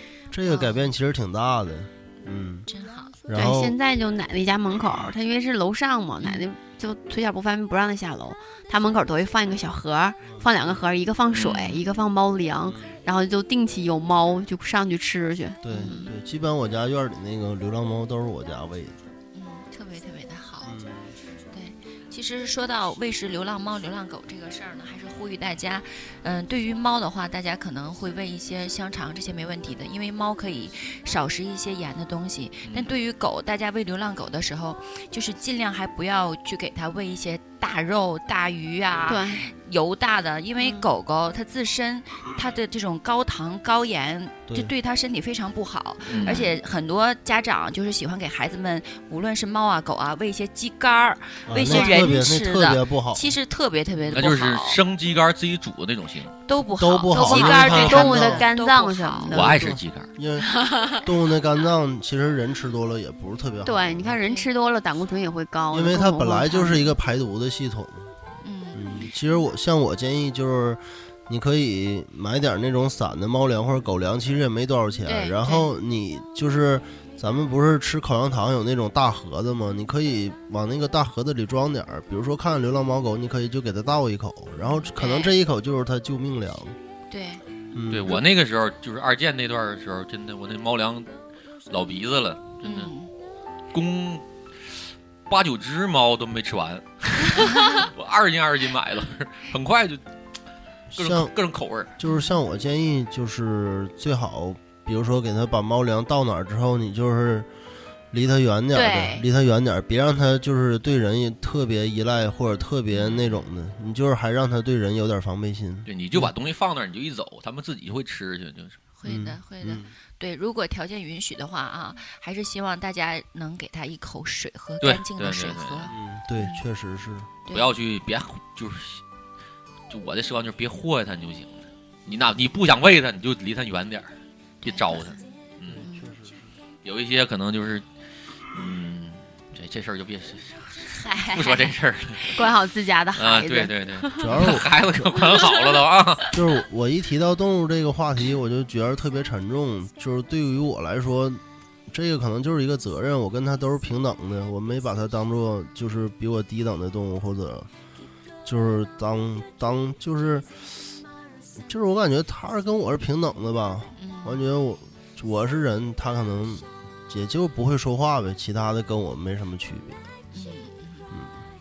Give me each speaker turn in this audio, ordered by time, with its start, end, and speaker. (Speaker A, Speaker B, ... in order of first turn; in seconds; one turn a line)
Speaker A: 0.3-2.7
Speaker B: 0.5-0.9
Speaker B: 2.7-3.1
Speaker A: 3.3-3.8
Speaker C: 3.3-16.1
Speaker A: 10.2-10.8
Speaker B: 11.4-11.8
Speaker A: 12.7-13.0
Speaker A: 15.6-19.0
Speaker B: 15.7-16.0
Speaker B: 19.3-20.7
Speaker A: 20.6-21.1
Speaker B: 21.5-54.8
Speaker D: 32.6-32.9
Speaker C: 39.0-39.4
Speaker C: 40.6-40.9
Speaker D: 46.1-46.5
Speaker A: 51.5-53.3
Speaker C: 51.6-52.1
Speaker D: 54.1-56.3
Speaker B: 56.5-59.4
Speaker A: 56.8-58.5
Speaker C: 57.1-59.6
Speaker D: 59.3-60.1
Speaker A: 59.4-64.2
Speaker C: 63.6-66.9
Speaker A: 65.7-68.1
Speaker B: 68.4-69.0
Speaker A: 68.7-86.8
Speaker B: 75.0-75.7
Speaker B: 84.8-85.3
Speaker B: 87.1-87.4
Speaker A: 87.7-88.2
Speaker D: 87.9-91.1
Speaker D: 91.7-92.9
Speaker B: 92.6-93.1
Speaker D: 93.7-94.2
Speaker D: 95.3-100.0
Speaker A: 100.9-101.3
Speaker D: 101.0-101.9
Speaker A: 102.0-107.5
Speaker B: 102.0-102.3
Speaker A: 108.1-116.3
Speaker B: 108.7-109.2
Speaker D: 113.0-113.4
Speaker D: 115.9-118.8
Speaker B: 118.9-126.6
Speaker A: 119.0-119.9
Speaker D: 124.8-125.9
Speaker A: 125.9-127.3
Speaker B: 127.5-127.7
Speaker D: 127.5-129.0
Speaker D: 129.9-135.8
Speaker B: 134.6-135.2
Speaker A: 135.6-136.5
Speaker B: 135.8-136.1
Speaker D: 136.8-137.8
Speaker D: 138.5-142.2
Speaker B: 140.8-142.4
Speaker C: 142.3-144.3
Speaker D: 143.1-146.3
Speaker A: 144.2-144.7
Speaker A: 146.3-157.7
Speaker A: 158.4-161.0
Speaker A: 161.6-170.1
Speaker B: 164.0-164.4
Speaker B: 170.3-171.1